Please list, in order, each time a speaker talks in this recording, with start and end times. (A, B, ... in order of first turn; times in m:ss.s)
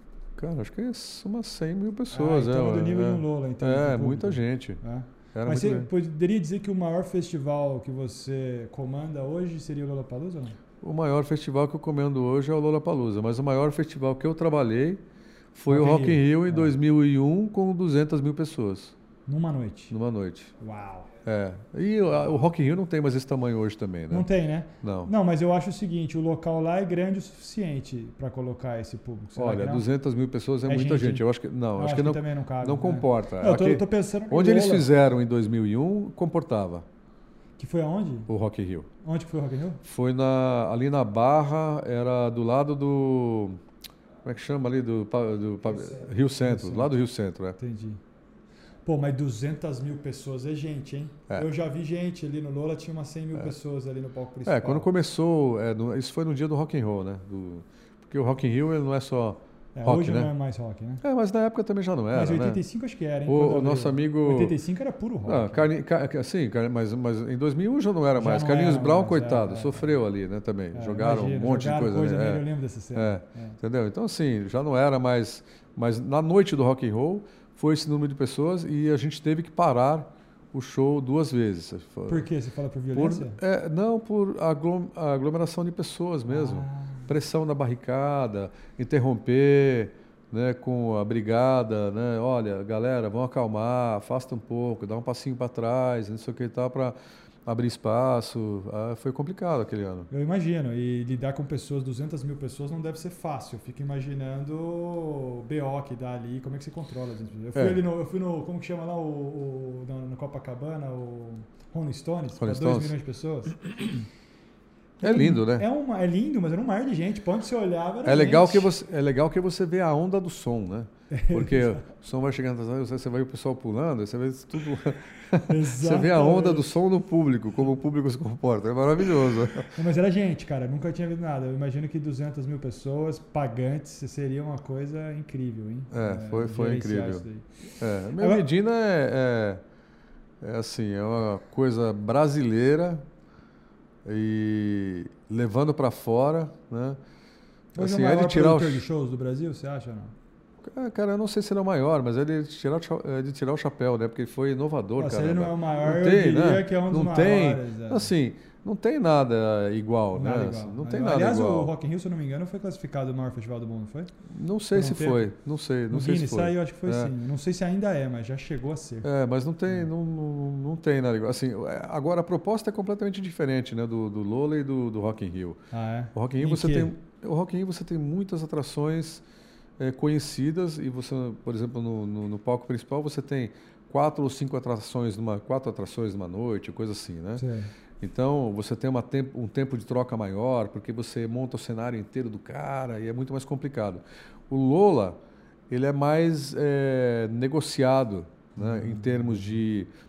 0:00.4-0:04.8 A
0:02.1-0:10.6 B
0:05.4-0:05.9 A
0:10.8-0:15.0 A
0:15.6-0:19.0 A
0:15.7-0:16.7 B
0:19.3-0:19.9 B
0:19.9-0:20.5 A
0:20.6-0:21.1 B
0:21.2-0:24.3 A
0:24.1-0:29.9 B
0:24.8-0:25.1 A
0:29.4-0:36.9 A
0:30.6-0:34.9 B
0:37.6-0:38.3 B
0:38.3-0:38.9 A
0:39.0-0:39.8 B
0:39.8-0:43.6 A
0:44.2-0:47.6 A
0:45.7-0:46.9 B
0:47.6-0:48.0 B
0:48.8-0:54.9 B
0:54.5-1:00.3 A
0:59.8-1:01.0 B
1:01.0-1:02.6 A
1:02.1-1:05.7 B
1:03.3-1:04.6 A
1:05.2-1:22.3 A
1:08.2-1:09.9 B
1:10.7-1:13.6 B
1:22.1-1:23.4 B
1:22.9-1:37.0 A
1:26.3-1:27.1 B
1:37.5-1:40.1 A
1:40.1-1:53.6 B
1:47.6-1:47.8 A
1:52.4-1:53.0 A
1:55.0-1:55.7 A
1:55.0-1:58.7 B
1:58.0-2:09.7 A
2:01.1-2:01.8 B
2:05.4-2:06.8 B
2:09.7-2:17.5 B
2:15.9-2:17.2 A
2:17.8-2:19.6 A
2:18.2-2:18.5 B
2:20.4-2:23.1 A
2:24.0-2:27.0 A
2:27.8-2:30.1 B
2:27.8-2:28.8 A
2:30.6-2:41.7 A
2:35.0-2:38.1 B
2:40.1-2:44.1 B
2:44.3-2:47.1 A
2:44.7-2:45.3 B
2:45.9-2:49.1 B
2:49.0-2:55.6 A
2:55.7-2:56.9 B
2:56.1-2:59.2 A
2:59.8-3:07.4 A
3:07.4-3:07.7 B
3:08.0-3:15.2 A
3:15.7-3:19.9 A
3:18.6-3:19.6 B